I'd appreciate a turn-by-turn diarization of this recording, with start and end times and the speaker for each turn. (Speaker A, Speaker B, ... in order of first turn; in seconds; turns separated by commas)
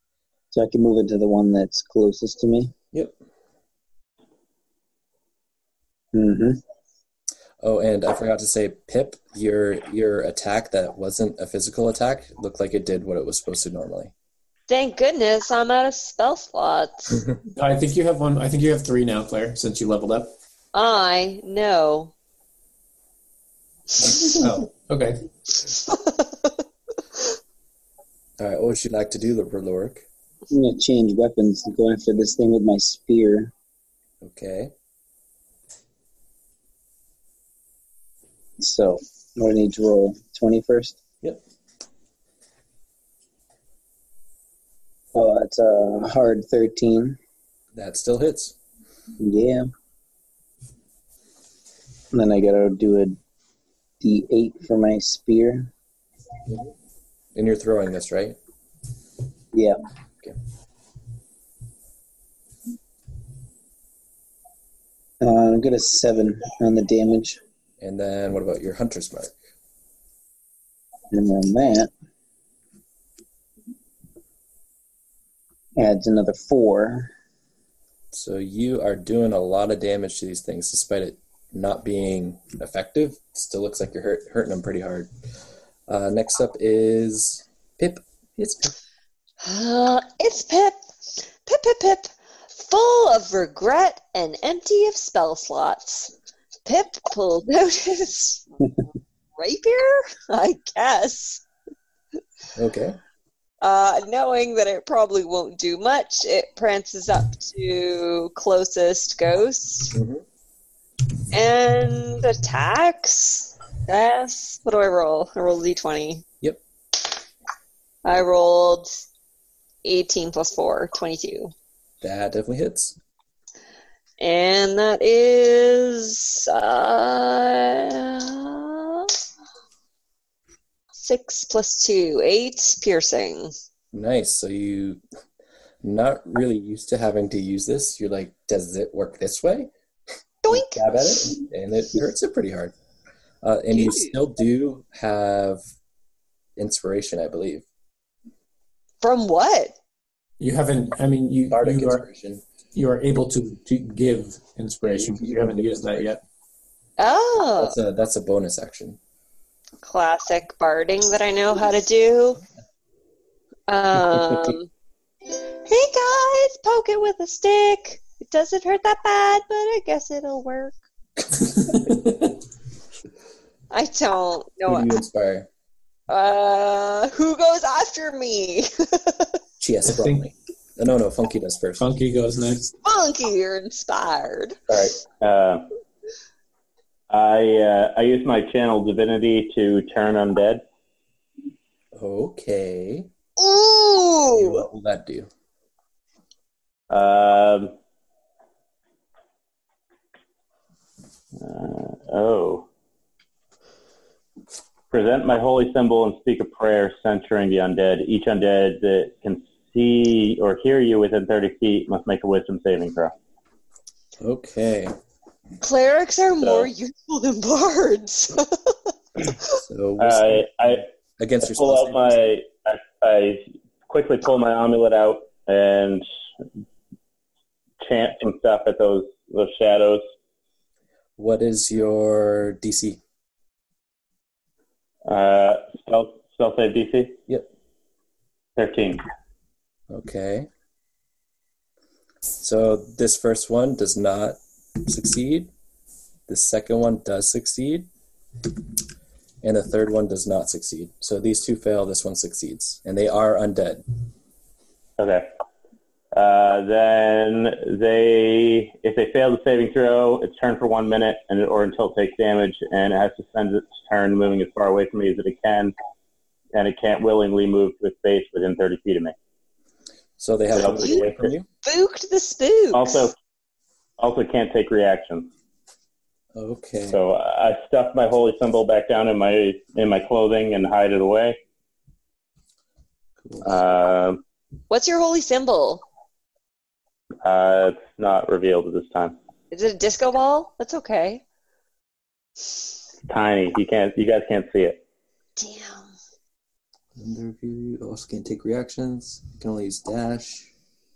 Speaker A: 0.5-2.7, Speaker A: 6.1-6.6, Speaker B: 7.6-14.1, Speaker C: 14.7-17.2, Speaker D: 17.5-20.3, Speaker C: 20.7-22.1, Speaker D: 24.3-25.3, Speaker C: 25.9-26.5, Speaker B: 28.4-30.0, Speaker A: 30.5-33.5, Speaker B: 34.2-34.7, Speaker A: 38.6-41.0, Speaker A: 45.1-47.2, Speaker B: 47.7-48.5, Speaker A: 49.2-49.7, Speaker A: 52.1-53.2, Speaker A: 54.0-55.7, Speaker B: 57.3-58.4, Speaker A: 59.5-59.8, Speaker A: 65.2-67.4, Speaker B: 67.8-69.3, Speaker A: 71.1-71.9, Speaker A: 75.8-77.1, Speaker B: 78.1-85.1, Speaker B: 85.9-88.8, Speaker C: 89.4-96.1, Speaker C: 96.6-98.5, Speaker C: 99.3-101.4, Speaker B: 102.5-103.0, Speaker C: 103.6-109.9, Speaker B: 109.9-110.2, Speaker C: 111.3-116.2, Speaker C: 118.0-119.0, Speaker C: 119.8-121.5, Speaker B: 122.0-123.0, Speaker C: 124.2-129.1, Speaker C: 131.0-133.5, Speaker B: 133.9-135.0, Speaker B: 135.8-139.7, Speaker C: 140.4-140.8, Speaker B: 140.5-142.7, Speaker B: 143.4-145.6, Speaker C: 143.7-144.1, Speaker B: 146.6-147.6, Speaker C: 149.0-149.7, Speaker D: 150.4-152.0, Speaker B: 151.5-152.4, Speaker D: 152.7-156.2, Speaker B: 154.8-156.1, Speaker C: 157.0-157.8, Speaker B: 157.6-159.0, Speaker C: 159.8-162.4, Speaker C: 163.7-164.7, Speaker C: 165.3-170.8, Speaker B: 171.7-172.1, Speaker C: 173.7-174.9, Speaker B: 174.7-175.5, Speaker C: 176.1-179.4, Speaker B: 179.6-181.9, Speaker D: 179.9-180.2, Speaker D: 181.8-182.7, Speaker C: 182.8-184.6, Speaker E: 184.7-185.7, Speaker E: 187.1-190.6, Speaker B: 191.9-193.1, Speaker C: 193.4-194.6, Speaker B: 194.3-195.3, Speaker E: 196.9-197.7, Speaker E: 201.3-202.7, Speaker E: 204.9-213.1, Speaker B: 214.2-214.9, Speaker C: 215.6-218.9, Speaker E: 216.4-216.7, Speaker B: 219.5-222.3, Speaker E: 220.0-220.8, Speaker E: 221.4-226.0, Speaker E: 227.8-230.0, Speaker B: 231.2-233.0, Speaker E: 235.1-237.2, Speaker E: 238.6-239.0, Speaker B: 239.9-240.5, Speaker B: 242.4-245.5, Speaker B: 246.3-247.9, Speaker B: 249.4-253.8, Speaker E: 255.0-255.3, Speaker E: 256.1-265.7, Speaker E: 266.5-269.1, Speaker B: 270.2-271.5, Speaker E: 270.5-271.3, Speaker C: 270.8-271.0, Speaker C: 271.6-273.1, Speaker E: 272.7-273.1, Speaker E: 274.0-275.3, Speaker B: 276.3-277.0, Speaker E: 276.9-281.4, Speaker B: 283.2-283.5, Speaker E: 283.4-284.2, Speaker C: 284.7-285.8, Speaker E: 287.2-289.2, Speaker C: 289.5-291.2, Speaker E: 293.1-294.8, Speaker C: 295.4-295.9, Speaker B: 296.9-300.5